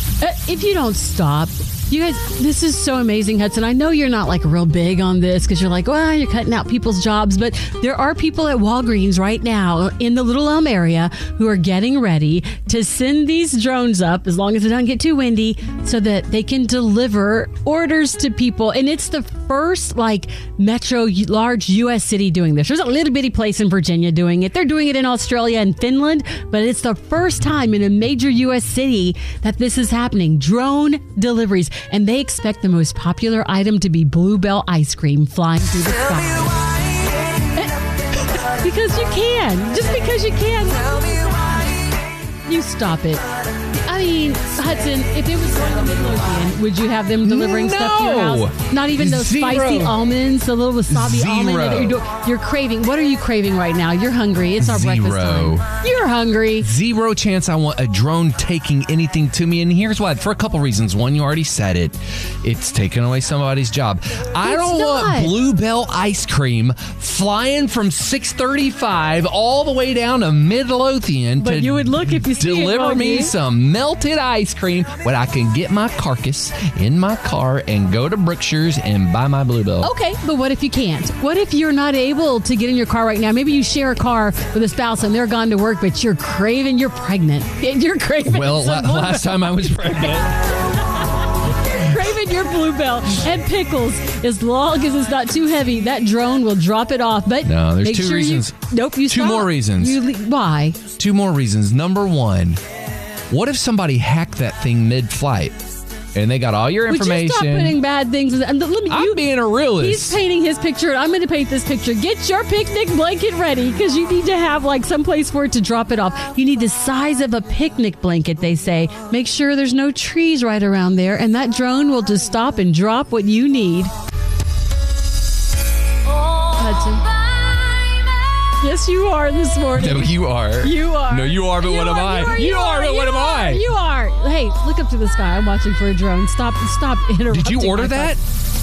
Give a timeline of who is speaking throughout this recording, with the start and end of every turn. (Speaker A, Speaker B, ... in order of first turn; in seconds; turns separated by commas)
Speaker A: 0.2-36.6, Speaker A: 38.4-41.0, Speaker A: 42.5-43.2, Speaker A: 43.8-56.7, Speaker B: 47.2-50.0, Speaker B: 50.9-52.0, Speaker B: 54.6-55.7, Speaker B: 56.6-79.9, Speaker A: 64.4-65.3, Speaker A: 71.4-73.3, Speaker A: 79.8-89.8, Speaker B: 88.2-90.4, Speaker A: 91.8-100.8, Speaker B: 97.4-100.0, Speaker B: 101.0-102.6, Speaker B: 103.3-105.6, Speaker B: 106.1-107.8, Speaker A: 106.9-123.9, Speaker B: 108.9-110.2, Speaker A: 126.5-127.0, Speaker A: 128.6-138.2, Speaker B: 129.7-133.7, Speaker B: 137.3-138.2